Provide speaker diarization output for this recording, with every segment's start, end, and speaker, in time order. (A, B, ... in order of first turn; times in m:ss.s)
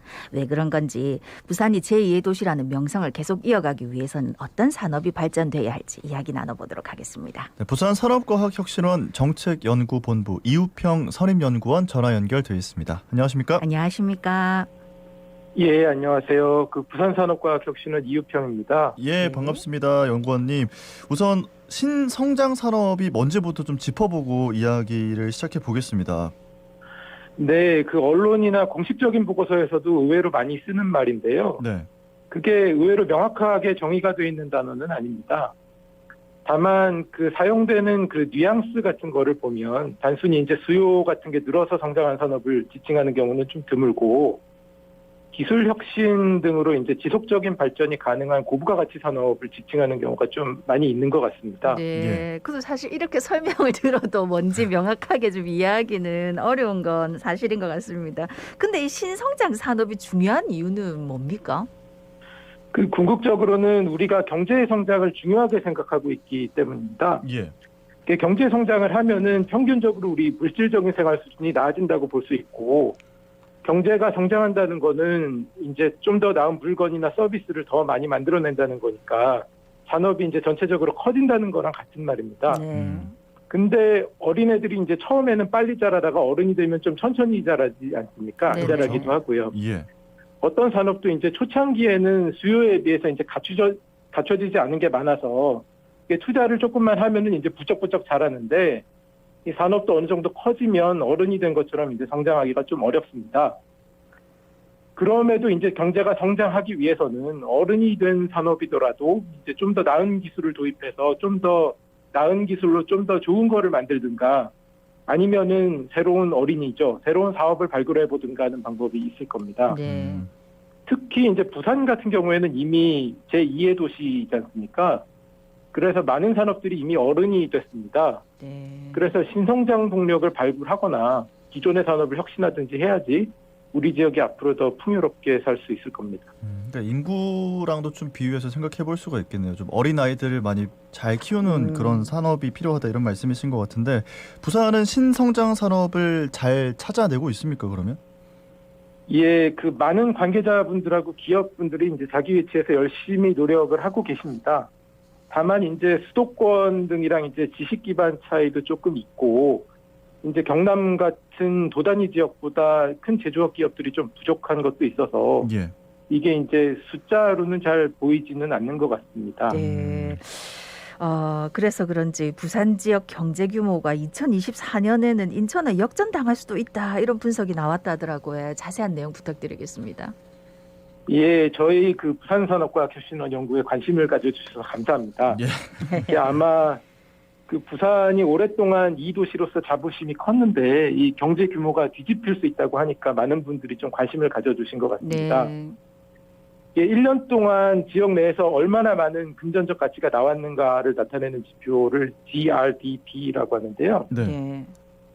0:00.3-0:07.5 A
0:07.6-0:13.6 B
0:13.6-0:14.7 A
0:15.5-0:19.0 C
0:19.0-0:26.3 B
0:19.2-0:19.6 A
0:27.4-0:31.6 C
0:31.6-0:31.9 B
0:32.3-0:35.5 C
0:36.4-0:44.4 C
0:45.3-0:51.8 C
0:51.6-1:01.7 A
0:52.0-0:52.3 B
1:02.7-1:07.2 C
1:07.2-1:07.5 B
1:08.0-1:13.0 C
1:13.6-1:22.6 C
1:22.5-1:23.1 A
1:22.7-1:23.1 B
1:23.5-1:29.5 C
1:28.5-1:29.2 A
1:28.5-1:29.9 B
1:30.4-1:38.8 C
1:39.4-1:43.6 C
1:45.0-1:54.5 C
1:55.1-1:59.8 C
1:59.7-2:00.2 A
1:59.8-2:00.3 B
2:00.9-2:05.0 C
2:05.7-2:08.2 C
2:08.4-2:09.1 A
2:08.9-2:16.3 C
2:16.4-2:28.0 B
2:21.4-2:22.1 A
2:29.1-2:34.7 C
2:35.3-2:39.7 C
2:40.2-2:45.5 C
2:45.4-2:45.7 B
2:46.1-2:49.6 C
2:49.5-3:00.1 A
2:49.5-2:50.2 B
3:01.1-3:05.4 C
3:05.3-3:06.2 B
3:05.8-3:06.1 A
3:06.1-3:06.8 C
3:07.5-3:15.5 C
3:15.0-3:15.8 A
3:16.7-3:24.1 C
3:24.1-3:24.4 B
3:24.1-3:24.7 A